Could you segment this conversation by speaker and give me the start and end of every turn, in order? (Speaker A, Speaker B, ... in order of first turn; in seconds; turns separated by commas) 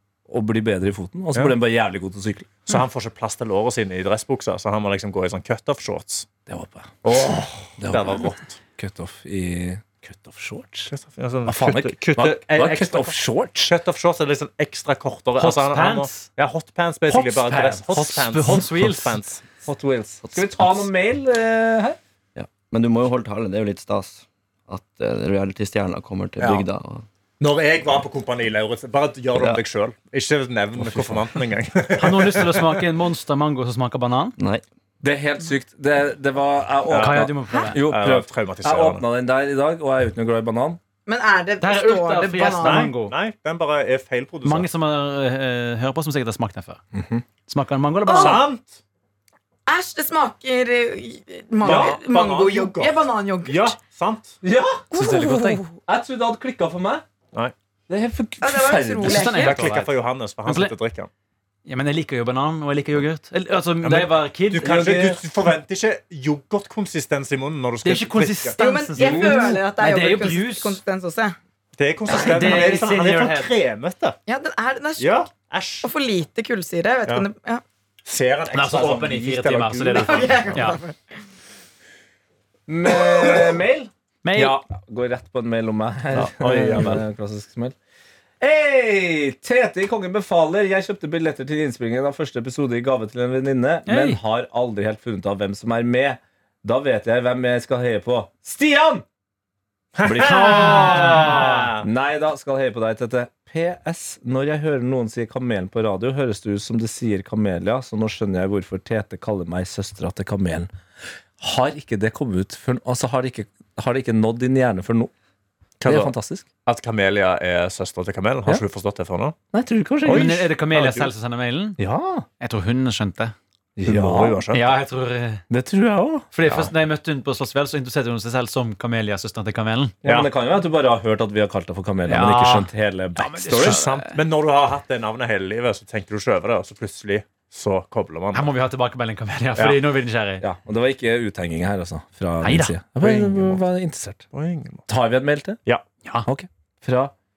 Speaker A: 0.3-2.7, Speaker B: 2.6-6.3, Speaker A: 6.5-7.2, Speaker B: 7.0-8.6, Speaker A: 7.8-10.9, Speaker B: 10.9-19.4, Speaker A: 11.5-13.7, Speaker C: 15.4-16.3, Speaker A: 17.1-17.8, Speaker C: 17.9-19.2, Speaker A: 19.6-22.0, Speaker D: 20.3-20.5, Speaker D: 22.4-27.1, Speaker B: 27.4-32.8, Speaker D: 29.4-29.6, Speaker D: 30.8-31.3, Speaker C: 32.0-34.4, Speaker D: 34.4-34.6, Speaker A: 35.0-40.8, Speaker B: 36.9-37.3, Speaker C: 36.9-37.8, Speaker B: 37.8-39.0, Speaker E: 41.1-42.9, Speaker C: 41.6-43.1, Speaker B: 42.5-44.7, Speaker C: 44.4-46.8, Speaker A: 47.0-47.2, Speaker C: 47.5-48.4, Speaker E: 48.1-48.4, Speaker B: 48.1-48.8, Speaker E: 49.7-53.8, Speaker B: 51.6-54.4, Speaker A: 51.6-52.0, Speaker A: 54.4-57.0, Speaker C: 54.9-55.6, Speaker A: 57.9-59.4, Speaker E: 58.4-59.6, Speaker C: 59.0-59.9, Speaker B: 59.4-61.1, Speaker C: 60.4-60.7, Speaker C: 61.7-65.0, Speaker A: 63.8-65.2, Speaker B: 64.6-68.6, Speaker C: 67.8-70.8, Speaker E: 68.6-71.4, Speaker A: 69.0-69.5, Speaker B: 71.8-74.2, Speaker C: 72.1-73.5, Speaker E: 74.3-75.2, Speaker B: 75.0-75.9, Speaker E: 75.8-77.6, Speaker B: 78.0-80.7, Speaker C: 78.5-80.8, Speaker E: 80.0-81.0, Speaker A: 82.7-87.8, Speaker C: 84.2-84.6, Speaker B: 86.1-87.0, Speaker A: 88.4-99.0, Speaker C: 93.9-94.2, Speaker B: 100.0-101.8, Speaker A: 100.0-101.2, Speaker C: 100.1-101.7, Speaker A: 101.8-110.7, Speaker A: 111.4-115.1, Speaker B: 115.8-116.1, Speaker A: 115.9-116.5, Speaker B: 116.7-119.4, Speaker A: 119.5-120.4, Speaker B: 120.0-121.1, Speaker C: 120.0-121.8, Speaker A: 121.8-122.3, Speaker C: 122.4-123.3, Speaker A: 123.8-124.5, Speaker B: 123.9-124.7, Speaker C: 124.5-125.4, Speaker A: 125.5-126.3, Speaker C: 126.3-130.0, Speaker B: 130.0-130.3, Speaker A: 130.0-133.8, Speaker C: 132.1-134.2, Speaker B: 133.5-138.5, Speaker C: 138.3-140.4, Speaker A: 140.4-144.3, Speaker C: 142.4-142.8, Speaker B: 143.0-143.6, Speaker B: 144.3-144.9, Speaker A: 144.9-145.6, Speaker A: 146.2-147.1